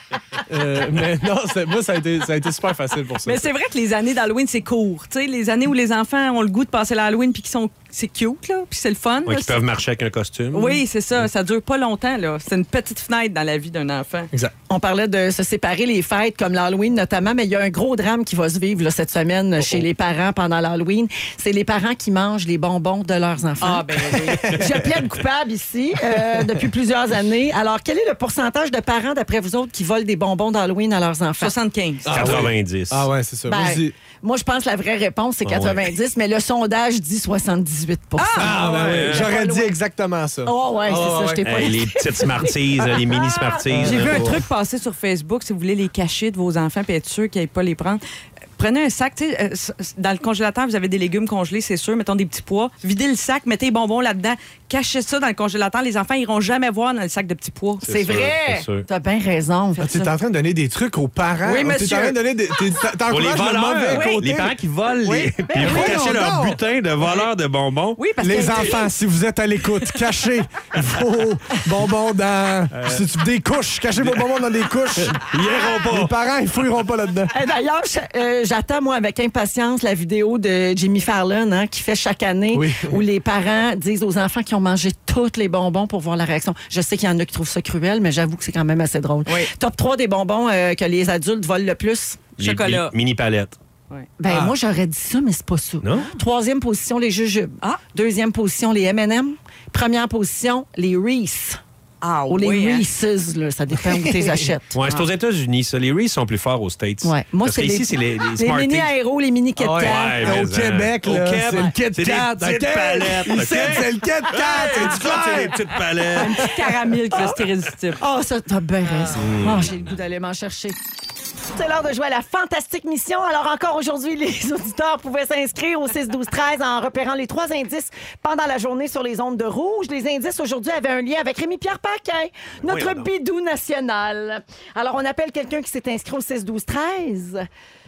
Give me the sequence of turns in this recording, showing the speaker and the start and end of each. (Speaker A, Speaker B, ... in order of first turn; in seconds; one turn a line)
Speaker A: 0.5-3.5
Speaker B: 3.2-9.6
Speaker C: 9.3-11.2
Speaker B: 10.5-14.3
Speaker D: 14.7-23.9
Speaker B: 23.6-24.7
Speaker A: 24.1-25.0
Speaker D: 24.5-31.5
Speaker A: 26.1-26.6
Speaker B: 31.4-32.1
Speaker A: 32.0-34.0
Speaker C: 32.1-33.1
Speaker D: 33.5-39.8
Speaker C: 35.5-35.9
Speaker B: 38.2-38.6
Speaker A: 38.4-41.5
Speaker C: 38.6-39.3
Speaker D: 40.5-43.9
Speaker C: 41.4-44.4
Speaker A: 43.7-44.3
Speaker B: 43.8-48.0
Speaker B: 48.6-57.9
Speaker C: 57.8-58.9
Speaker D: 57.9-60.1
Speaker A: 59.8-66.6
Speaker B: 61.4-62.2
Speaker C: 63.1-68.0
Speaker B: 63.9-64.3
Speaker B: 65.5-66.0
Speaker B: 68.0-68.9
Speaker A: 68.2-77.3
Speaker C: 72.7-73.1
Speaker C: 74.0-74.3
Speaker C: 75.0-76.1
Speaker D: 77.3-92.3
Speaker A: 82.5-83.0
Speaker B: 89.3-89.5
Speaker C: 92.4-93.6
Speaker B: 92.4-93.0
Speaker D: 94.2-101.6
Speaker A: 94.3-94.5
Speaker C: 95.8-96.1
Speaker B: 102.0-102.9
Speaker D: 102.3-104.8
Speaker A: 103.8-104.5
Speaker C: 104.7-108.9
Speaker D: 107.0-110.4
Speaker A: 109.6-115.8
Speaker C: 109.8-116.5
Speaker B: 116.2-118.0
Speaker D: 117.1-117.4
Speaker D: 118.0-120.8
Speaker C: 119.2-119.8
Speaker D: 121.5-137.4
Speaker C: 132.6-133.1